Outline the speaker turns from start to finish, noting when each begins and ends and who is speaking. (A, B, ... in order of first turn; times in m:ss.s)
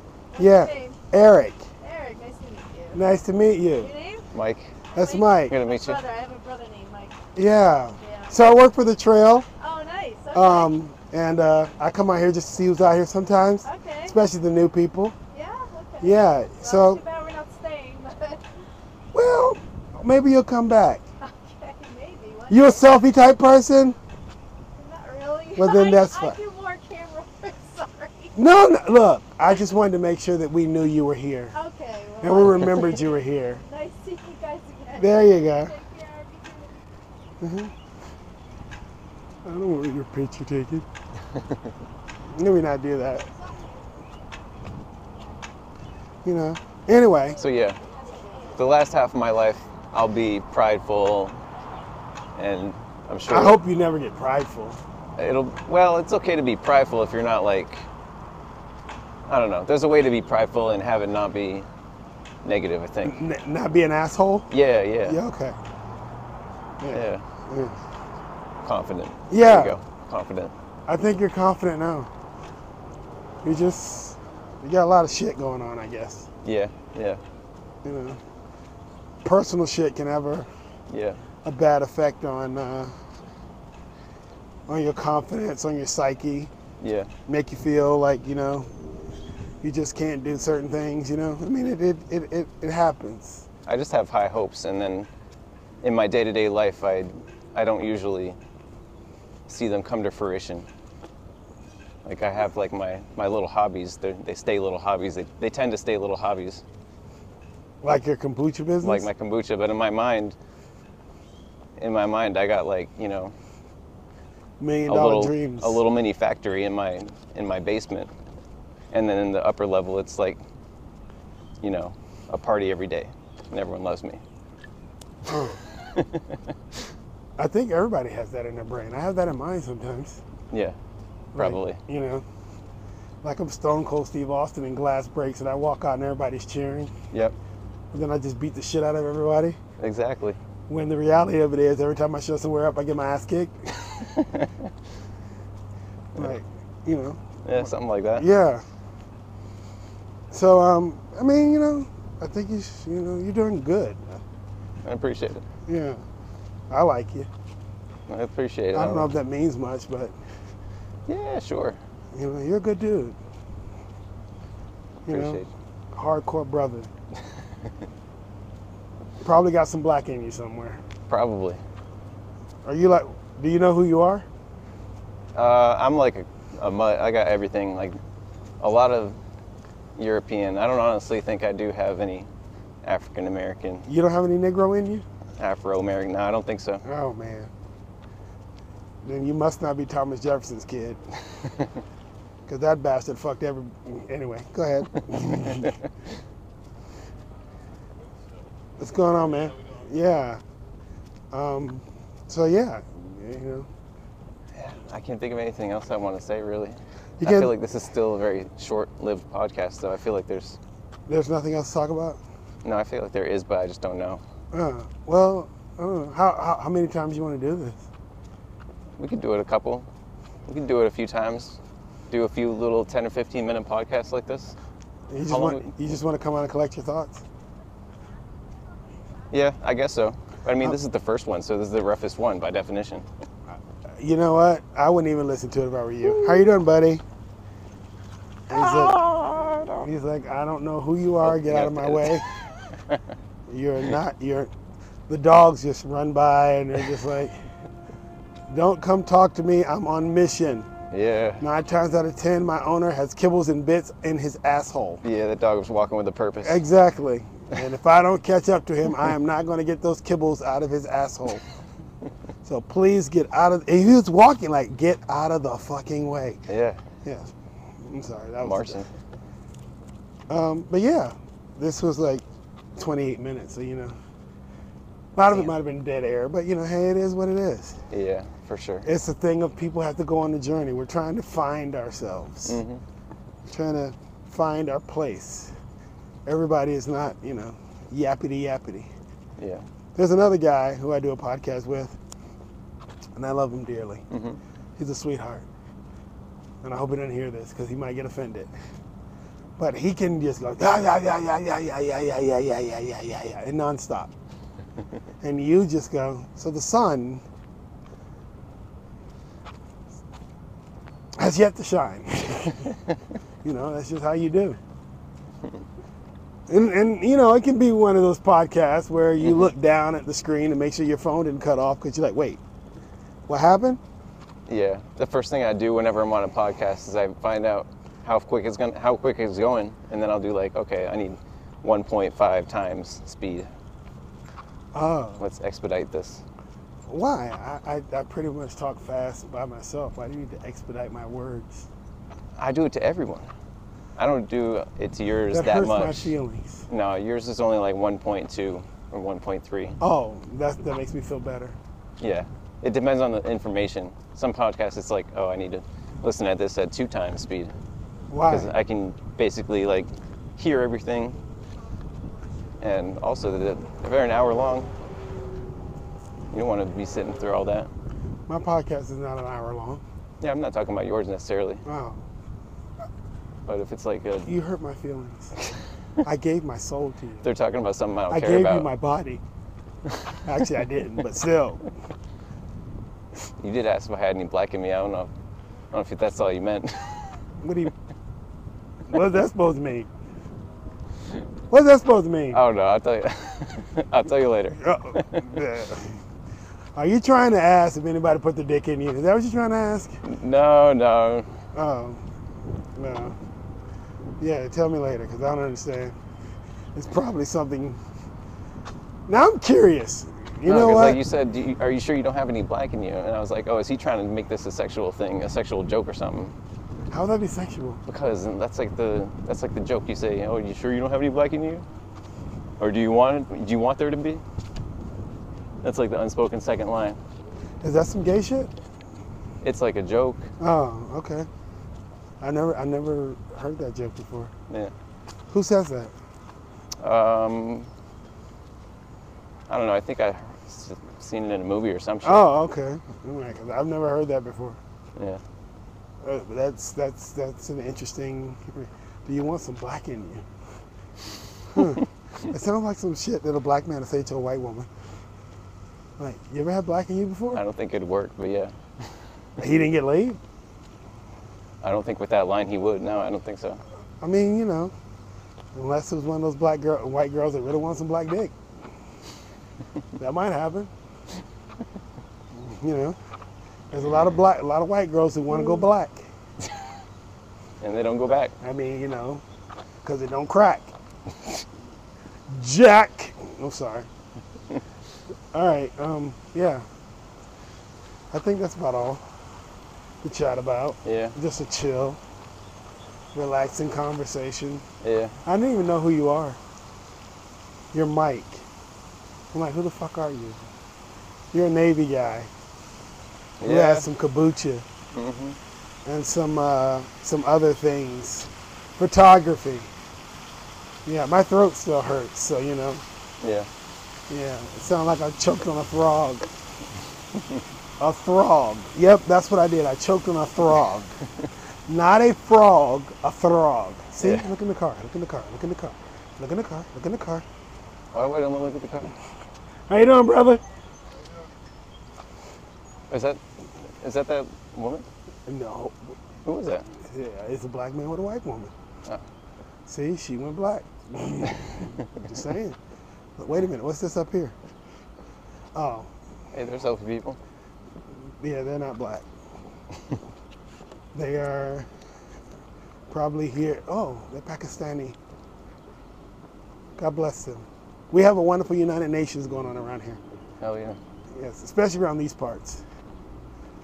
0:00.3-0:01.0 A
0:00.4-0:01.6 B
0:01.8-0:03.0 A
0:02.9-0:03.9 B
0:03.8-0:04.3 A
0:04.3-0:04.7 C
0:04.9-0:07.2 A
0:04.9-0:05.5 B
0:05.5-0:06.0 C
0:07.4-0:09.5 B
0:08.0-0:08.4 A
0:09.6-0:10.7 A
0:10.3-0:15.1 B
0:13.6-0:14.1 A
0:15.3-0:18.4 A
0:16.0-0:17.0 B
0:19.1-0:21.0 B
0:21.2-0:22.9 A
0:22.5-0:24.0 B
0:24.7-0:28.4 A
0:25.6-0:26.4 B
0:28.4-0:31.5 B
0:31.5-0:36.7 A
0:32.2-0:33.6 B
0:35.0-0:35.7 B
0:37.4-0:37.7 B
0:39.4-0:40.8 B
0:42.3-0:43.3 B
0:43.3-0:43.6 A
0:46.2-0:47.4 B
0:47.4-0:47.8 C
0:47.8-0:48.6 A
0:48.6-0:51.4 C
0:52.4-0:53.6 C
0:53.3-0:54.8 B
0:55.2-0:57.9 C
0:59.3-1:01.7 C
1:02.4-1:03.2 C
1:03.0-1:04.5 B
1:04.5-1:05.2 C
1:05.0-1:05.6 B
1:06.8-1:07.8 B
1:06.9-1:07.2 C
1:08.6-1:10.5 C
1:09.3-1:09.8 B
1:10.9-1:12.1 B
1:13.4-1:16.3 B
1:16.4-1:17.2 C
1:17.8-1:18.2 B
1:19.2-1:20.5 B
1:20.9-1:21.2 C
1:21.4-1:22.9 B
1:24.7-1:26.5 B
1:26.8-1:27.1 C
1:27.3-1:28.7 B
1:29.6-1:33.4 B
1:33.6-1:35.1 C
1:35.8-1:38.4 C
1:39.5-1:40.7 C
1:42.0-1:46.6 C
1:47.8-1:49.1 B
1:48.8-1:50.4 C
1:51.8-1:53.4 C
1:54.6-1:55.8 B
1:54.9-1:58.1 C
1:58.9-2:00.4 C
2:01.6-2:04.2 C
2:05.3-2:05.6 B
2:05.8-2:06.4 C
2:07.4-2:10.2 B
2:10.5-2:10.8 C
2:11.3-2:12.2 B
2:11.4-2:11.8 C
2:13.2-2:16.9 B
2:17.9-2:19.6 B
2:19.8-2:20.4 C
2:20.7-2:23.9 B
2:24.2-2:24.7 C
2:26.2-2:28.6 B
2:27.4-2:28.2 C
2:30.3-2:34.2 B
2:34.8-2:35.4 C
2:35.7-2:36.0 B
2:36.7-2:37.3 B
2:38.1-2:39.1 C
2:38.7-2:40.1 B
2:41.1-2:41.8 C
2:42.1-2:43.2 B
2:45.1-2:45.5 C
2:45.1-2:46.9 B
2:47.4-2:47.7 C
2:49.2-2:50.8 B
2:51.1-2:51.6 C
2:52.6-2:54.2 B
2:55.4-2:58.0 C
2:58.6-2:59.2 C
3:00.0-3:02.3 C
3:02.8-3:03.9 C
3:03.9-3:05.0 B
3:05.4-3:06.8 C
3:06.8-3:07.5 B
3:09.0-3:11.0 B
3:12.5-3:15.8 B
3:15.4-3:15.7 C
3:18.8-3:20.4 B
3:21.3-3:23.7 B
3:24.5-3:30.6 C
3:27.2-3:27.5 B
3:31.1-3:32.2 B
3:32.6-3:34.2 C
3:34.5-3:37.8 B
3:39.0-3:39.9 C
3:40.4-3:41.6 C
3:42.1-3:44.6 C
3:45.1-3:47.2 B
3:45.3-3:45.7 C
3:49.3-3:53.0 C
3:54.0-3:57.0 B
3:56.0-3:56.5 C
3:58.5-3:59.0 B
3:58.5-3:59.9 C
3:59.8-4:02.2 B
4:01.2-4:02.3 C
4:03.5-4:04.5 B
4:05.1-4:07.4 B
4:08.5-4:10.7 B
4:10.9-4:11.4 C
4:11.4-4:15.0 B
4:15.0-4:16.6 C
4:16.4-4:21.4 B
4:22.4-4:26.4 B
4:26.5-4:26.8 C
4:27.0-4:28.8 B
4:28.4-4:28.9 C
4:30.3-4:32.2 B
4:32.8-4:34.0 B
4:35.2-4:37.8 B
4:35.3-4:35.5 C
4:37.9-4:38.9 C
4:38.8-4:42.6 B
4:42.4-4:42.8 C
4:43.4-4:45.5 B
4:46.2-4:48.9 B
4:49.4-4:49.6 C
4:49.9-4:52.0 B
4:53.2-4:54.0 B
4:54.1-4:54.4 C
4:54.8-4:55.5 B
4:56.6-4:58.5 B
4:59.6-5:04.1 B
5:05.2-5:07.2 B
5:11.2-5:12.8 B
5:13.4-5:14.6 B
5:16.5-5:22.4 B
5:19.2-5:19.5 C
5:23.3-5:23.8 B
5:24.5-5:33.5 C
5:34.7-5:35.2 B
5:35.2-5:36.2 C
5:36.9-5:41.7 B
5:42.4-5:43.3 C
5:44.0-5:46.1 C
5:45.3-5:46.6 B
5:46.7-5:49.8 C
5:49.8-5:51.6 B
5:52.0-5:57.5 C
5:58.1-5:58.5 B
5:58.2-6:01.2 C
6:02.6-6:04.7 C
6:06.3-6:07.7 C
6:08.3-6:09.8 B
6:10.2-6:11.6 C
6:11.6-6:12.0 B
6:13.4-6:14.3 C
6:14.2-6:15.4 B
6:16.0-6:17.2 B
6:17.2-6:18.7 C
6:18.1-6:19.2 B
6:20.2-6:21.6 B
6:23.4-6:25.1 C
6:25.7-6:27.2 C
6:27.4-6:27.7 B
6:28.9-6:29.9 B
6:31.5-6:32.4 B
6:32.3-6:35.2 C
6:34.6-6:36.0 B
6:36.8-6:40.0 B
6:40.0-6:41.3 C
6:41.5-6:42.0 B
6:42.8-6:43.2 B
6:44.2-6:45.9 B
6:46.7-6:47.8 B
6:49.1-6:51.0 B
6:50.4-6:56.4 C
6:56.9-6:57.8 B
6:57.9-7:01.6 C
7:02.6-7:04.2 C
7:05.6-7:07.0 C
7:07.6-7:08.5 B
7:09.4-7:10.3 C
7:10.4-7:11.3 B
7:12.2-7:14.3 B
7:15.3-7:15.9 B
7:16.8-7:17.7 C
7:19.5-7:22.3 C
7:22.0-7:24.6 B
7:26.0-7:30.2 B
7:31.5-7:34.7 B
7:36.0-7:37.4 B
7:37.3-7:38.9 C
7:39.4-7:40.2 B
7:41.6-7:43.6 C
7:44.0-7:44.7 B
7:45.5-7:48.3 B
7:50.0-7:50.7 B
7:52.3-7:53.0 B
7:53.7-7:56.1 B
7:57.6-7:58.3 C
7:58.4-7:59.2 B
7:59.8-8:00.7 B
8:02.3-8:03.9 B
8:05.3-8:06.6 B
8:08.1-8:09.0 B
8:10.0-8:12.0 B
8:10.8-8:11.2 C
8:13.1-8:14.6 B
8:14.8-8:15.2 C
8:15.2-8:16.4 B
8:17.7-8:18.4 B
8:19.3-8:20.5 B
8:21.3-8:22.3 B
8:23.4-8:23.9 C
8:23.4-8:24.6 B
8:24.9-8:25.4 C
8:25.8-8:29.7 B
8:30.8-8:32.8 B
8:33.2-8:33.5 C
8:34.1-8:36.2 B
8:37.8-8:41.0 B
8:41.7-8:47.2 B
8:44.0-8:44.3 C
8:47.9-8:48.9 C
8:49.7-8:50.4 B
8:52.9-8:53.2 C
8:53.8-8:54.8 C
8:55.3-8:55.9 B
8:56.2-8:56.6 C
8:56.6-8:58.5 B
8:59.7-9:02.6 B
9:03.2-9:04.4 B
9:05.5-9:05.9 B
9:06.3-9:07.2 C
9:08.2-9:09.1 B
9:10.9-9:11.7 B
9:12.9-9:15.0 B
9:16.8-9:20.0 B
9:20.4-9:20.8 C
9:21.1-9:22.6 B